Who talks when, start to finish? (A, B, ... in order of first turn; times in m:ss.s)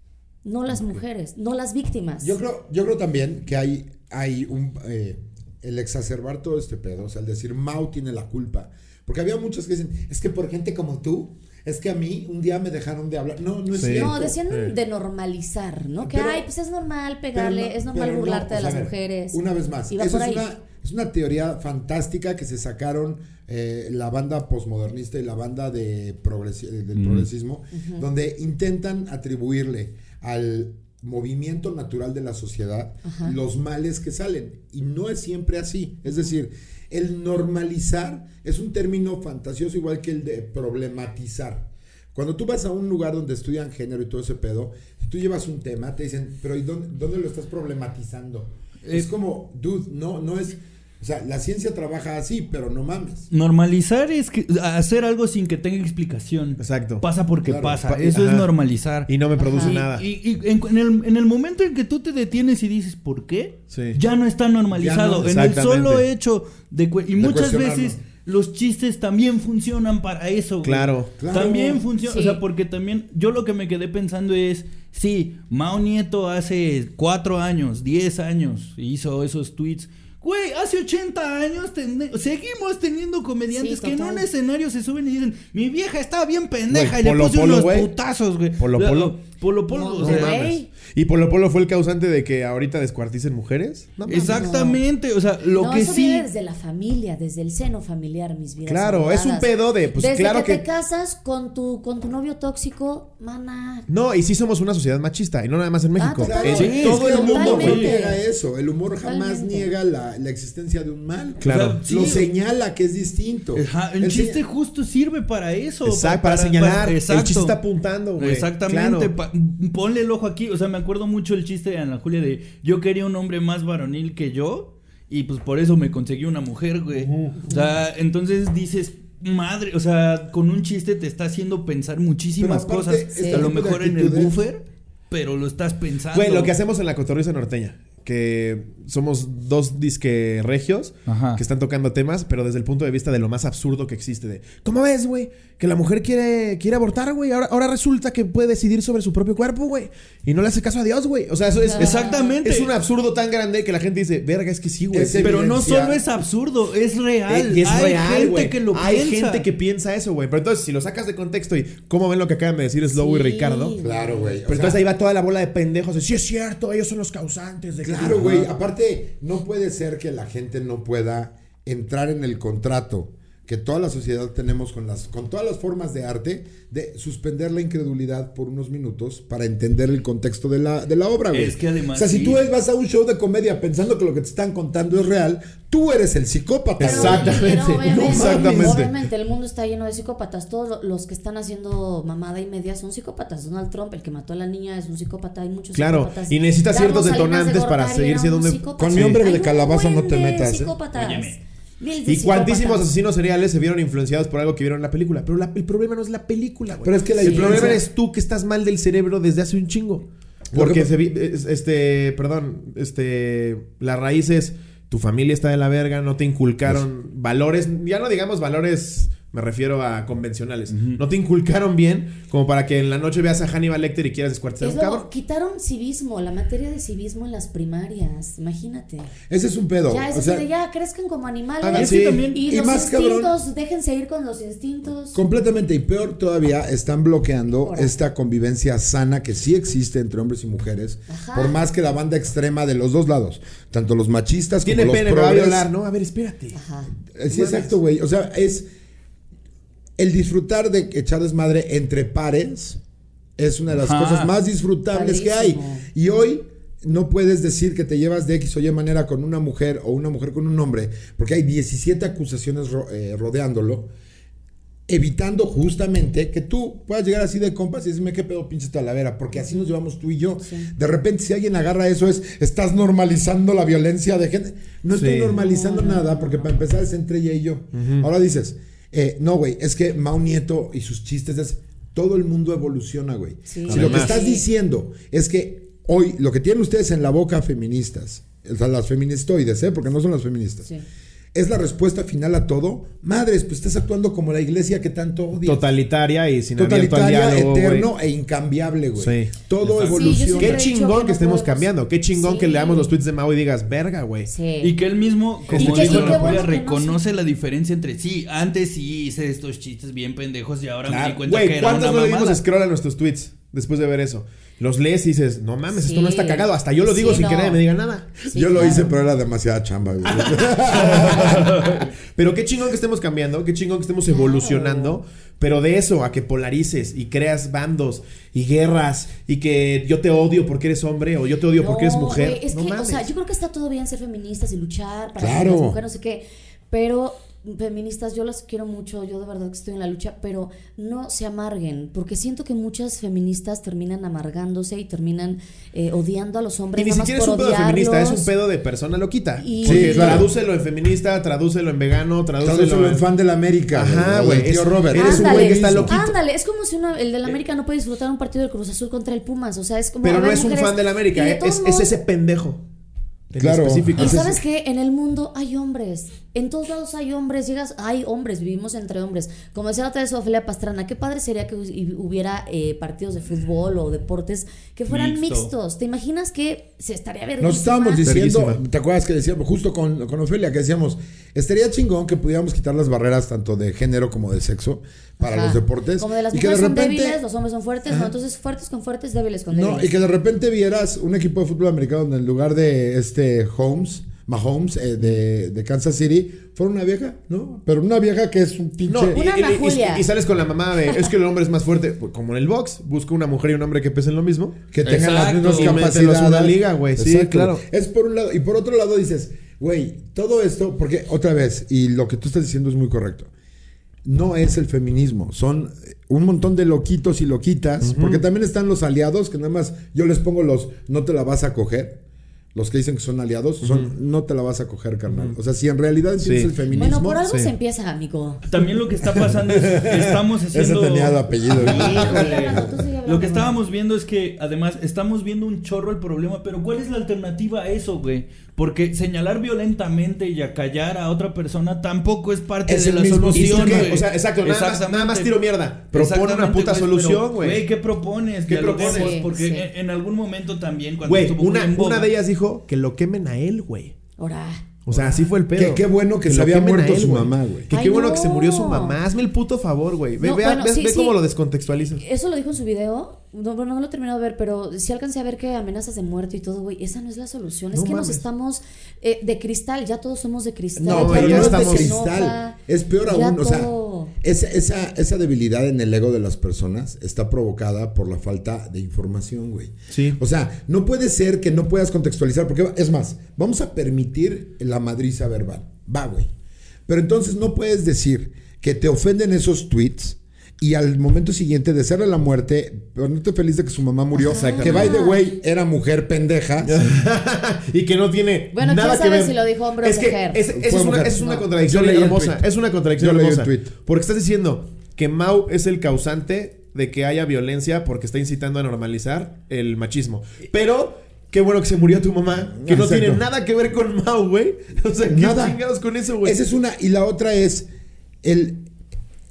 0:00.4-0:02.4 A
0:02.2-0:14.4 B
0:13.7-0:14.7 C
0:13.9-0:20.4 A
0:16.0-0:16.5 B
0:17.3-0:53.3 B
0:26.9-0:27.3 D
0:27.7-0:28.0 A
0:33.0-0:33.4 A
0:53.3-1:30.4 D
0:56.6-0:57.0 C
0:57.4-0:57.8 B
0:57.8-0:58.5 C
0:59.1-1:00.0 C
0:59.4-0:59.8 A
1:03.7-1:04.0 C
1:04.7-1:05.5 B
1:05.2-1:06.0 C
1:07.2-1:08.0 B
1:10.6-1:11.1 C
1:11.2-1:11.8 B
1:12.0-1:12.4 A
1:23.5-1:24.3 A
1:26.7-1:27.9 C
1:28.6-1:29.2 C
1:29.7-1:30.7 A
1:30.0-1:34.7 C
1:34.1-1:36.3 D
1:34.1-1:34.8 A
1:35.6-1:43.9 A
1:38.6-1:40.6 C
1:43.9-1:47.9 C
1:46.0-1:48.2 A
1:46.2-1:54.4 B
1:46.5-1:47.9 D
1:49.0-1:49.7 A
1:51.4-1:51.8 C
1:51.4-1:52.3 D
1:53.5-1:57.6 D
1:55.8-1:59.1 C
1:58.2-2:16.5 D
2:06.9-2:07.4 C
2:12.4-2:14.4 B
2:13.1-2:13.5 A
2:16.1-2:35.4 C
2:21.1-2:21.4 D
2:31.6-2:32.3 A
2:31.8-2:32.7 D
2:34.9-2:36.0 B
2:35.2-2:39.4 D
2:37.3-2:43.8 C
2:42.9-2:44.4 A
2:43.8-2:44.8 B
2:44.4-2:48.5 C
2:47.8-3:08.9 B
3:01.3-3:02.4 D
3:06.8-3:08.9 C
3:06.8-3:22.9 A
3:15.7-3:19.2 C
3:18.8-3:20.7 B
3:20.9-3:21.4 D
3:22.1-3:45.1 C
3:26.8-3:27.8 B
3:27.2-3:27.8 A
3:30.5-3:30.9 B
3:40.7-3:41.0 D
3:44.6-3:49.1 A
3:49.3-3:50.4 B
3:49.9-3:55.2 A
3:51.6-3:52.2 C
3:51.7-3:52.5 D
3:52.5-3:53.3 B
3:55.1-4:05.7 B
3:57.6-3:57.9 A
4:01.1-4:01.6 A
4:04.6-4:06.6 C
4:06.5-4:06.9 A
4:07.1-4:08.7 B
4:07.3-4:07.7 C
4:10.0-4:12.8 B
4:13.4-4:23.9 B
4:13.7-4:14.3 D
4:14.9-4:15.8 A
4:24.9-4:50.7 B
4:30.4-4:30.7 A
4:34.9-4:35.4 C
4:35.3-4:36.5 A
4:37.7-4:38.1 C
4:43.5-4:44.4 A
4:43.7-4:44.2 C
4:51.3-4:55.7 B
4:55.4-4:57.9 C
4:56.6-5:00.6 B
4:59.0-4:59.3 C
4:59.6-5:00.2 D
4:59.8-5:02.9 A
5:00.3-5:04.3 C
5:04.3-5:04.8 A
5:04.6-5:12.4 D
5:05.5-5:06.5 C
5:05.5-5:07.0 A
5:10.8-5:18.9 C
5:15.7-5:17.6 A
5:18.2-5:18.9 A
5:18.3-5:21.7 B
5:20.0-5:33.1 C
5:24.1-5:25.0 A
5:31.5-5:48.3 A
5:35.2-5:35.8 B
5:46.8-5:53.0 C
5:49.4-5:50.3 A
5:49.6-5:50.3 B
5:52.4-5:56.0 B
5:53.7-5:56.2 C
5:54.9-6:02.0 A
6:00.0-6:02.6 C
6:03.3-6:04.3 C
6:03.4-6:04.4 B
6:04.0-6:18.1 A
6:14.9-6:15.5 D
6:17.4-6:27.2 B
6:18.0-6:18.6 C
6:25.2-6:29.9 A
6:29.5-6:39.2 B
6:38.9-6:47.6 C
6:39.1-6:40.1 A
6:44.7-6:53.3 B
6:44.8-6:45.8 D
6:54.0-7:02.0 B
6:57.8-6:58.2 C
7:02.5-7:07.2 B
7:03.6-7:03.9 C
7:05.1-7:05.4 C
7:06.2-7:07.5 C
7:06.7-7:08.4 A
7:08.5-7:25.4 D
7:09.7-7:10.0 C
7:10.5-7:12.7 B
7:11.6-7:13.6 A
7:11.7-7:12.0 C
7:22.6-7:23.9 B
7:23.3-7:27.6 C
7:25.9-7:32.1 D
7:28.5-7:29.2 C
7:28.8-7:29.7 A
7:31.0-7:33.9 C
7:34.2-7:34.6 A
7:34.8-7:42.0 C
7:35.5-7:37.7 B
7:37.7-7:39.0 A
7:40.2-7:41.2 A
7:42.0-7:54.1 A
7:47.7-7:48.2 C
7:50.8-8:06.3 B
7:50.8-7:52.0 C
7:59.9-8:00.2 C
8:06.9-8:16.9 B
8:14.2-8:15.2 A
8:14.2-8:15.0 C
8:16.6-8:36.4 C
8:18.5-8:20.4 A
8:20.5-8:23.7 B
8:32.5-8:33.2 B
8:35.1-8:35.6 B
8:36.2-8:37.7 B
8:38.2-8:38.7 B